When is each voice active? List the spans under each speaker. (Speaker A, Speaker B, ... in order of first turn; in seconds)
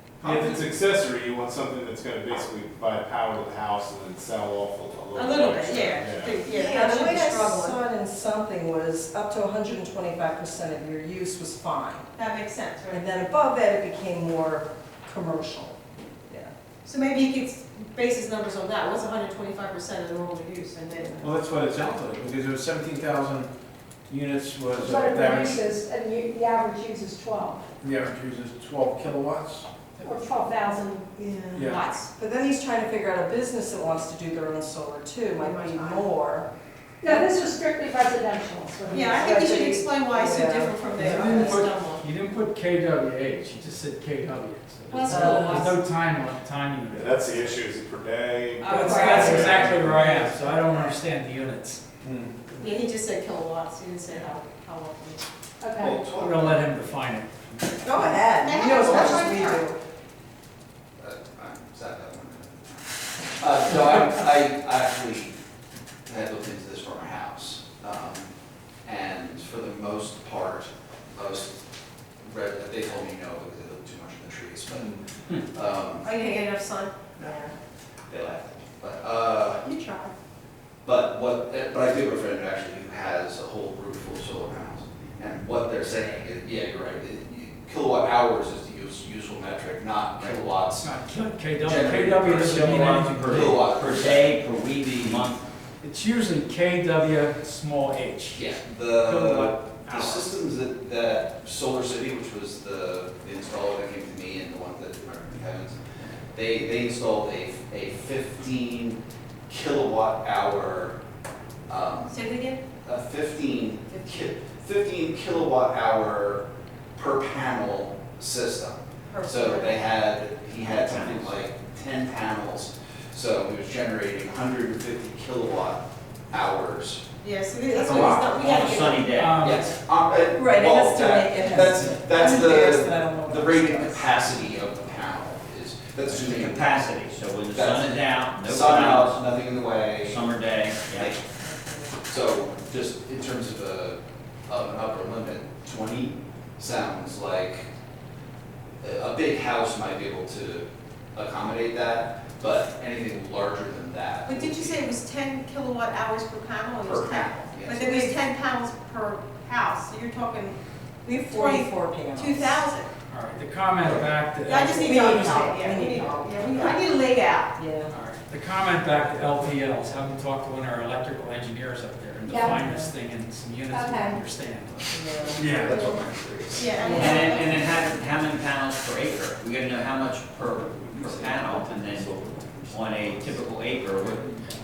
Speaker A: 0.2-6.3, 46.9-49.7, 175.4-175.9, 177.0-177.9, 180.6-183.2, 184.0-184.4
Speaker B: 5.1-7.8, 12.2-13.1, 16.9-21.2, 31.6-32.1, 35.4-36.1, 38.9-42.0, 44.9-45.8, 48.7-50.9, 52.6-55.3, 58.4-59.6, 76.0-77.5, 79.6-80.1, 112.1-112.6, 119.1-119.8, 127.2-129.2, 154.2-162.9, 164.4-167.6, 176.6-177.7
Speaker C: 6.4-12.1, 12.9-15.8, 31.2-36.5, 39.2-41.6, 45.1-45.7, 48.8-49.5, 57.8-59.8, 130.3-134.2, 141.4-142.0, 161.1-162.6, 164.8-166.8, 167.6-167.9, 172.3-172.9, 174.9-175.5, 176.8-177.4
Speaker D: 21.2-23.5, 24.1-25.6, 27.8-29.7, 31.6-31.8, 48.8-50.1, 52.0-52.4
Speaker E: 24.8-27.7, 30.0-31.1, 37.0-39.5, 48.7-49.8, 55.6-56.1, 172.3-172.6, 173.7-174.2, 175.7-176.0
Speaker F: 41.0-47.5, 48.6-51.8, 56.1-58.2, 90.2-93.8, 95.8-100.4, 129.2-129.7, 163.1-165.5, 167.9-175.9
Speaker G: 55.8-56.7, 58.8-59.3, 61.0-65.3, 66.1-68.3, 68.8-71.6, 72.2-76.1, 78.1-79.6, 80.8-90.9, 91.6-94.4, 94.9-95.3, 98.3-105.8, 106.3-111.0, 111.7-112.1, 112.8-116.5, 117.0-127.0, 127.9-128.3, 129.4-136.8, 137.5-140.3, 140.9-141.2, 142.1-147.7, 148.8-154.8, 156.8-158.0, 175.7-176.7
Speaker H: 92.5-95.4, 120.7-121.3, 127.8-129.3, 136.1-139.3, 140.0-141.1, 177.0-182.1, 182.7-184.3